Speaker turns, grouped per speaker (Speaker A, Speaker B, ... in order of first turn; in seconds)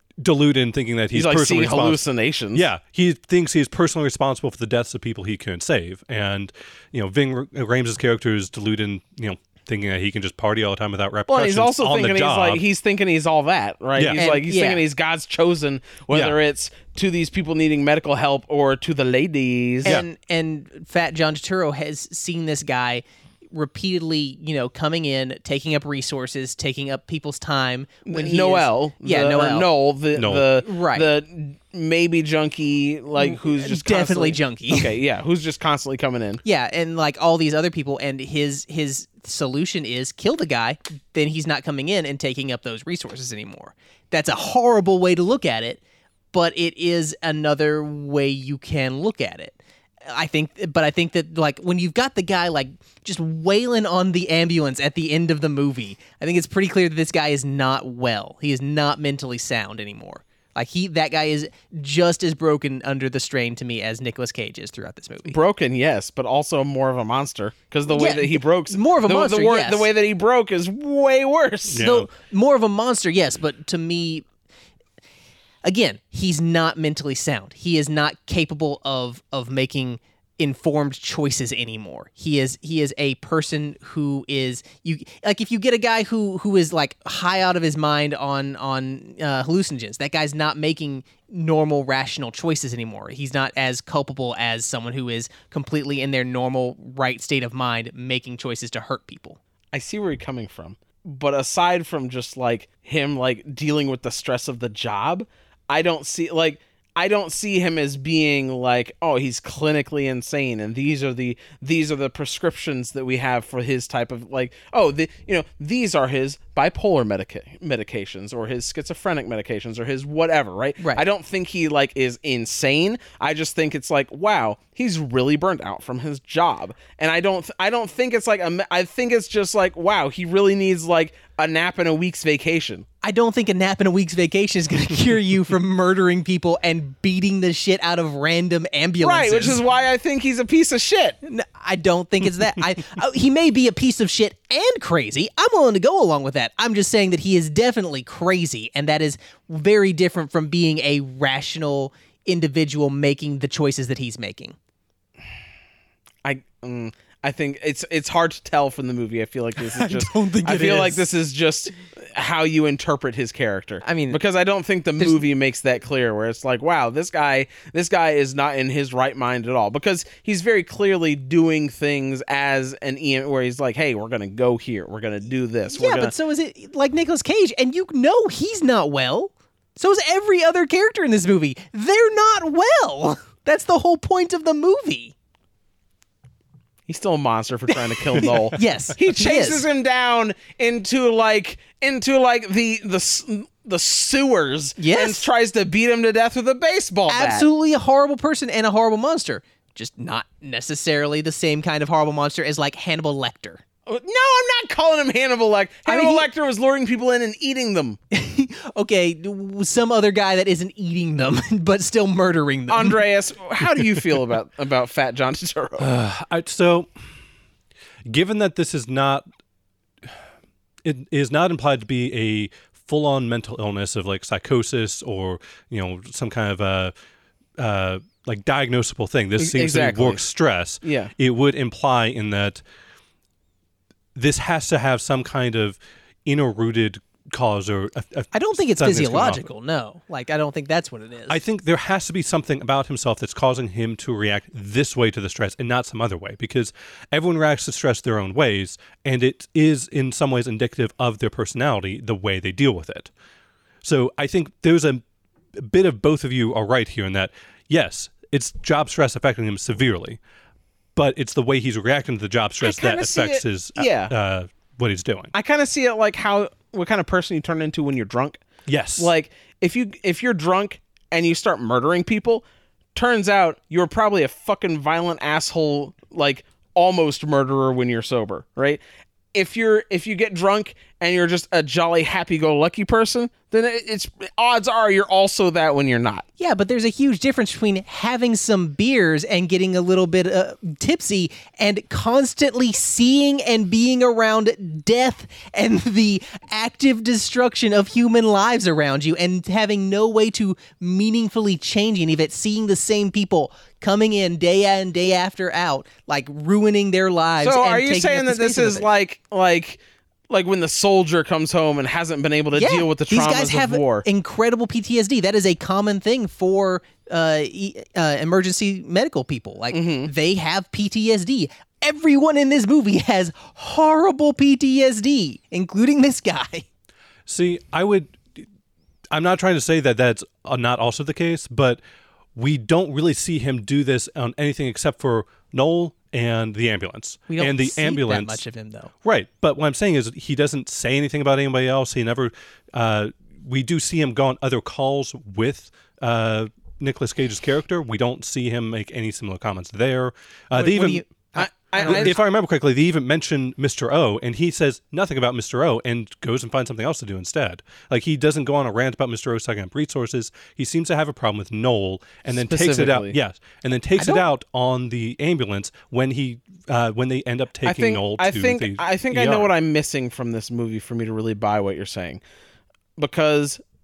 Speaker A: 0.2-2.0, 2.5-12.6, 13.9-14.2, 16.1-16.4, 30.1-30.5, 71.7-72.1, 215.8-216.9, 218.1-219.2, 220.8-226.9, 227.6-232.6, 234.1-239.4, 241.3-253.1, 253.8-255.0, 255.5-260.2, 260.9-265.3, 268.7-269.1, 327.3-328.4, 329.1-331.8, 332.3-338.4, 339.0-351.0, 351.8-369.5
Speaker B: 1.1-2.6, 11.3-19.9, 28.1-36.4, 65.2-71.8, 99.7-132.8, 139.0-141.2, 156.2-176.1, 186.9-197.4, 203.9-208.0, 212.7-215.9, 229.4-230.2, 230.8-231.1, 262.6-264.1, 265.3-268.4, 269.0-272.4, 272.9-278.8, 279.3-286.2, 307.4-309.8, 310.3-314.1, 319.7-320.1, 351.4-352.2, 362.3-363.2, 367.6-372.2, 373.0-373.6
Speaker C: 14.1-14.8, 19.8-29.7, 30.6-31.1, 33.1-34.9, 36.4-45.8, 46.3-65.4, 67.9-69.9, 71.8-74.2, 75.6-99.4, 133.0-139.6, 141.2-154.5, 159.6-161.1, 163.8-164.2, 175.7-185.1, 188.1-189.6, 194.8-195.3, 197.1-203.6, 205.8-206.3, 208.1-213.0, 238.3-241.4, 286.4-308.9, 312.5-326.6, 337.3-338.9, 350.5-352.1